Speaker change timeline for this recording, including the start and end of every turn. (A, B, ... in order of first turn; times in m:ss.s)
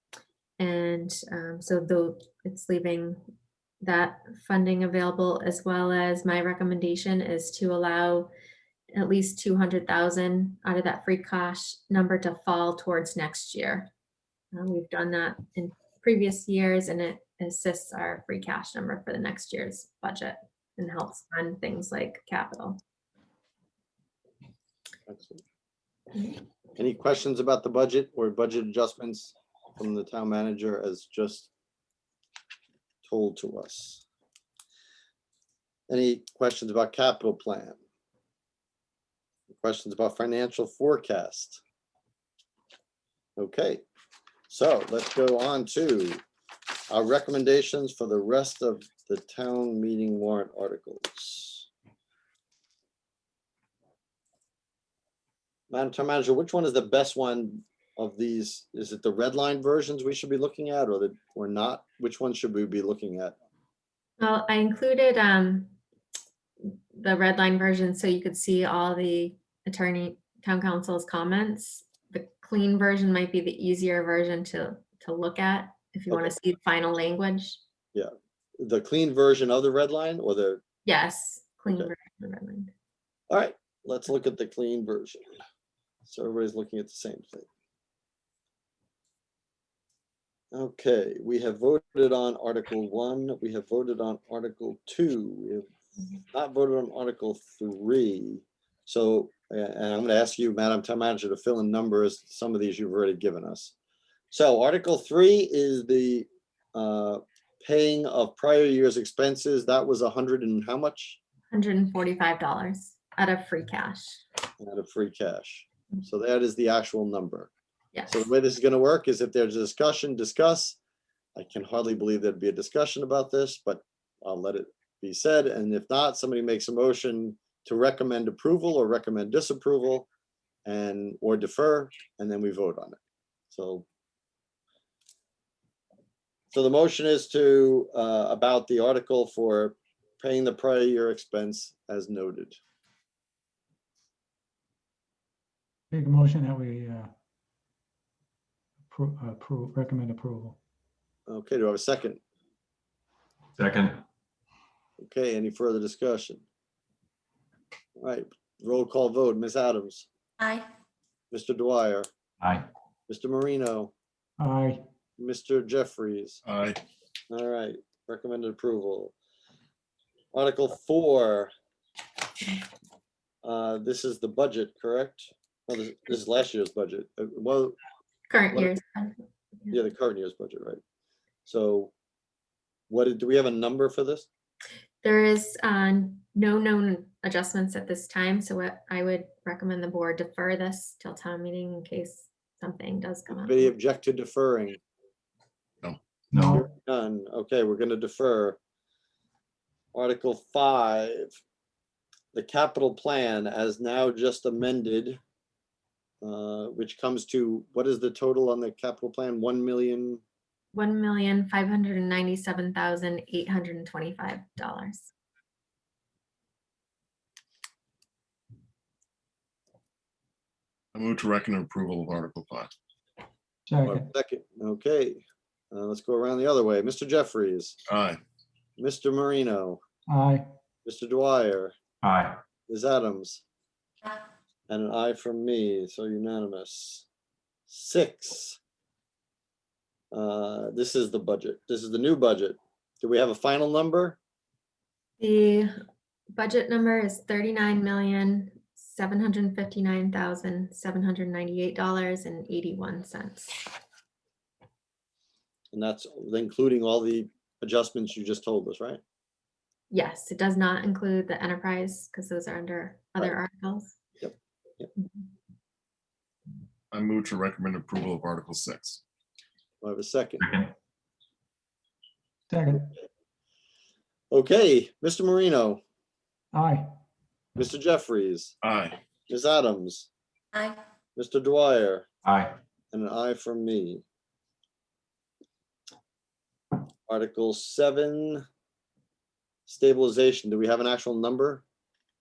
0:00.6-0:03.2 A
0:03.8-0:08.3 A
0:08.9-0:13.9 A
0:14.5-0:22.8 A
0:25.1-0:25.4 B
0:26.8-0:31.5 B
0:33.0-0:34.0 B
0:35.9-0:37.8 B
0:39.5-0:41.6 B
0:43.4-0:43.8 B
0:44.5-0:46.2 B
0:46.9-0:51.7 B
0:55.7-1:03.3 B
1:04.2-1:05.7 A
1:06.6-1:17.6 A
1:17.9-1:20.6 B
1:20.8-1:22.7 A
1:23.3-1:25.2 B
1:26.0-1:27.5 B
1:30.5-1:35.6 B
1:36.3-1:43.7 B
1:44.3-1:51.2 B
1:51.5-1:54.2 A
1:54.6-1:57.5 B
1:57.9-1:58.3 A
1:58.1-2:00.8 B
2:01.4-2:10.1 B
2:10.6-2:13.0 B
2:13.5-2:13.8 B
2:16.5-2:22.6 B
2:25.9-2:27.1 C
2:28.9-2:30.6 C
2:31.3-2:32.2 B
2:33.6-2:34.0 D
2:35.0-2:36.4 B
2:38.0-2:40.1 B
2:41.3-2:42.1 B
2:42.4-2:42.7 D
2:43.1-2:43.9 B
2:44.4-2:44.8 C
2:45.2-2:46.4 B
2:46.4-2:46.8 E
2:47.3-2:49.1 B
2:50.3-2:51.5 B
2:53.4-2:57.8 B
2:58.3-2:59.8 A
2:59.7-3:00.8 B
3:01.4-3:01.9 B
3:02.9-3:04.3 B
3:05.0-3:13.7 A
3:13.3-3:14.8 B
3:16.3-3:16.6 C
3:16.5-3:18.6 B
3:19.9-3:21.4 B
3:22.3-3:25.2 B
3:26.2-3:30.2 B
3:30.7-3:35.1 A
3:40.9-3:42.7 E
3:43.7-3:44.1 C
3:43.8-3:47.7 B
3:47.9-3:48.2 E
3:48.8-3:49.8 B
3:50.1-3:50.4 C
3:50.8-3:51.7 B
3:52.0-3:52.4 D
3:52.7-3:53.4 B
3:54.7-3:57.0 B
3:57.7-3:58.6 B
4:00.1-4:04.2 B
4:05.2-4:05.7 A
4:06.3-4:13.6 A
4:15.7-4:19.0 B
4:19.9-4:24.0 A
4:24.2-4:24.9 B
4:26.9-4:29.0 E
4:29.8-4:30.4 B
4:30.4-4:30.7 D
4:32.5-4:32.9 C
4:34.3-4:35.8 B
4:36.5-4:36.8 C
4:37.6-4:38.5 B
4:38.6-4:39.0 E
4:39.3-4:40.1 B
4:41.2-4:42.0 B
4:42.2-4:42.6 D
4:42.9-4:44.0 B
4:47.1-4:48.4 B
4:49.6-4:51.6 B